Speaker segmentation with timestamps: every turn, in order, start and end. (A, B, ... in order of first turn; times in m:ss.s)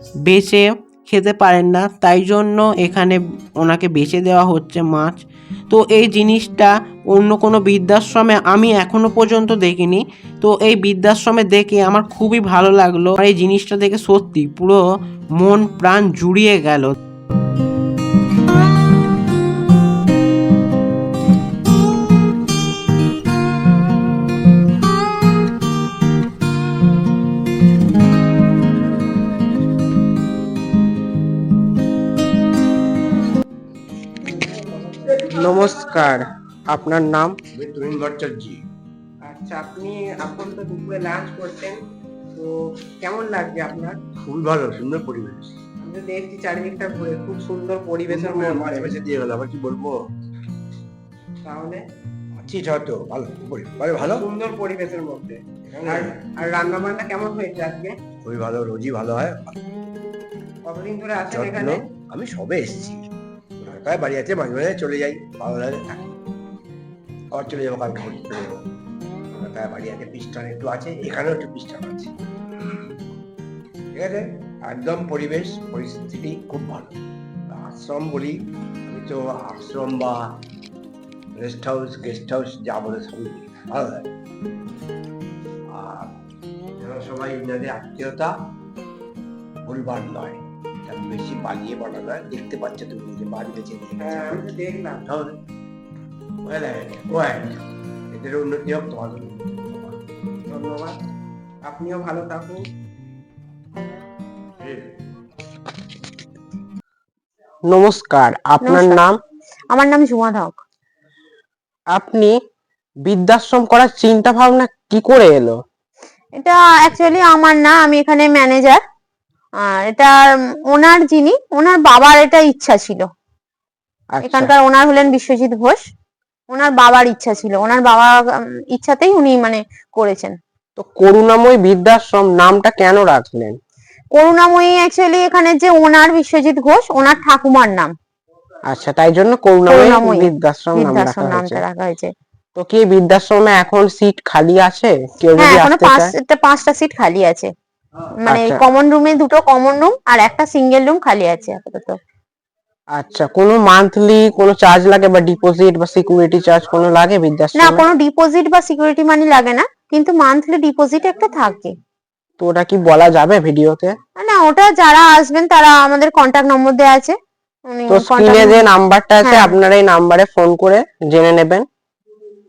0:00.2-0:14.8 A
0:15.4-0:17.0 A
0:34.2-0:37.4 B
0:37.5-0:38.6 C
0:39.2-0:41.8 B
0:42.4-0:44.0 B
0:44.2-0:45.5 C
0:45.8-0:49.0 B
0:48.1-0:50.0 C
0:51.4-0:51.8 B
0:52.3-0:54.2 C
0:54.0-0:58.0 B
0:55.7-0:56.2 C
0:58.2-0:59.6 C
1:00.7-1:01.8 B
1:01.3-1:03.0 C
1:03.6-1:06.1 C
1:07.3-1:08.6 C
1:09.4-1:12.1 C
1:13.9-1:17.0 C
1:17.5-1:20.2 C
1:21.4-1:24.1 C
1:25.7-1:26.1 C
1:26.8-1:28.3 C
1:29.6-1:34.5 C
1:34.0-1:35.0 B
1:35.0-1:35.4 C
1:36.4-1:37.6 C
1:38.1-1:40.0 C
1:40.5-1:41.0 B
1:41.6-1:42.6 B
1:44.6-1:44.9 C
1:47.7-1:49.2 B
1:48.6-1:49.0 D
1:49.7-1:50.6 D
1:51.9-1:52.3 B
1:53.0-1:55.6 B
1:56.4-1:58.8 D
1:59.6-2:03.1 D
2:04.1-2:04.5 B
2:04.2-2:05.8 D
2:06.5-2:10.4 D
2:10.8-2:13.6 B
2:14.1-2:17.9 D
2:18.7-2:21.6 B
2:19.7-2:22.1 D
2:22.6-2:26.1 B
2:25.4-2:27.5 D
2:28.2-2:32.0 D
2:28.3-2:28.6 B
2:33.0-2:37.8 B
2:37.6-2:41.7 D
2:42.4-2:44.0 B
2:44.2-2:47.2 D
2:47.7-2:48.7 D
2:47.9-2:51.6 B
2:49.2-2:49.5 D